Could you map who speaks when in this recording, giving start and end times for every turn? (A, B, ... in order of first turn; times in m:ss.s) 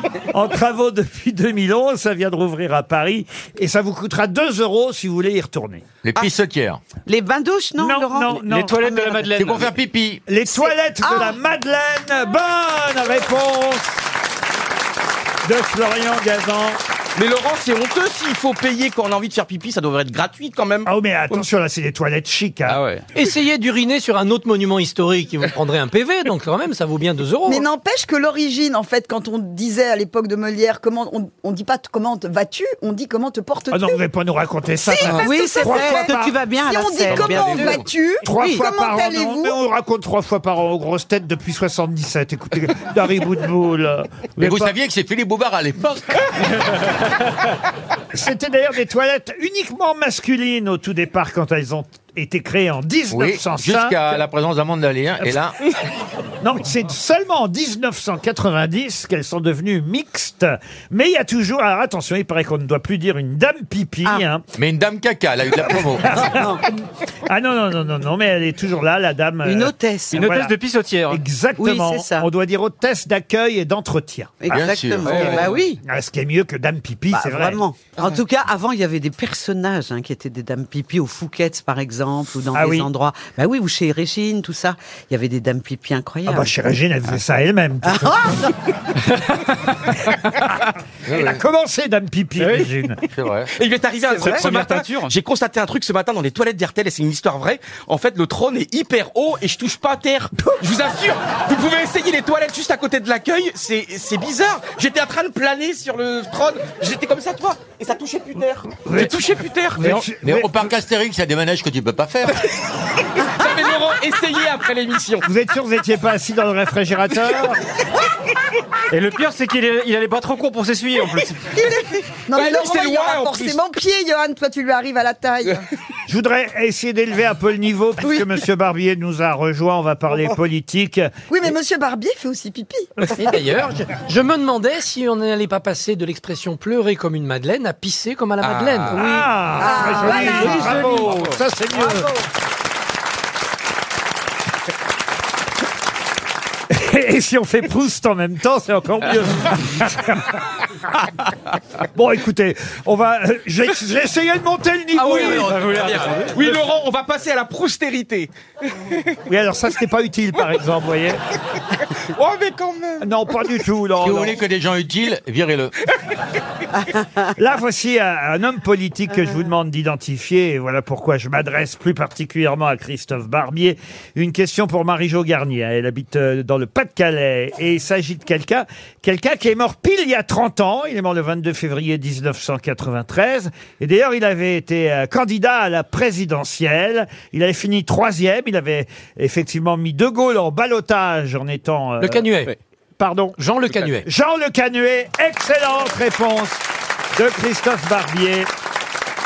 0:00.2-0:05.8 A
0:06.0-0:06.8 B
0:07.1-0:09.2 C
0:07.8-0:08.8 A
0:08.4-0:09.7 D
0:09.4-0:10.2 B
0:10.3-0:14.0 A
0:11.0-0:11.3 C
0:15.4-0:16.8 A
0:17.2-0:20.9 E
0:20.8-0:22.8 A
0:22.7-0:23.0 D
0:23.1-0:27.6 F
0:27.4-0:34.0 G
0:33.7-0:36.3 A
0:34.8-0:39.6 G
0:35.0-0:37.8 C
0:38.2-0:44.7 A
0:38.4-0:38.6 C
0:44.4-0:46.2 B
0:48.1-0:54.2 A
0:53.1-0:55.5 B
0:56.4-1:04.4 A
1:04.6-1:06.3 B
1:06.0-1:06.6 A
1:06.2-1:06.6 C
1:07.2-1:10.5 A
1:09.4-1:10.3 C
1:10.1-1:11.2 D
1:11.1-1:14.5 A
1:11.6-1:12.3 C
1:14.4-1:15.8 C
1:14.5-1:15.5 B
1:15.0-1:15.6 D
1:15.1-1:17.6 A
1:17.1-1:26.5 C
1:22.5-1:22.9 A
1:26.2-1:28.5 A
1:27.8-1:28.5 C
1:31.0-1:31.4 B
1:31.1-1:33.0 A
1:32.4-1:32.7 D
1:33.1-1:33.5 B
1:33.5-1:49.8 E
1:34.1-1:35.1 D
1:48.8-1:49.2 A
1:49.8-1:50.7 A
1:49.8-1:50.0 D
1:50.2-1:52.4 B
1:53.2-1:55.2 E
1:55.2-1:57.6 A
1:58.9-2:01.5 D
2:01.6-2:05.6 G
2:02.3-2:03.6 E
2:06.1-2:11.1 A
2:11.3-2:12.9 G
2:13.1-2:19.3 F
2:18.9-2:22.1 A
2:19.6-2:20.8 G
2:20.0-2:21.2 F
2:20.6-2:21.4 D
2:26.7-2:30.4 A
2:31.9-2:35.6 A
2:35.0-2:39.2 E
2:35.0-2:36.6 D
2:39.3-2:41.2 A
2:42.1-2:43.2 E
2:43.0-2:44.4 A
2:44.0-2:45.7 B
2:47.4-3:12.3 A
3:12.0-3:12.5 F
3:13.0-3:13.4 A
3:13.4-3:14.0 F
3:14.0-3:16.6 A
3:17.1-3:18.5 A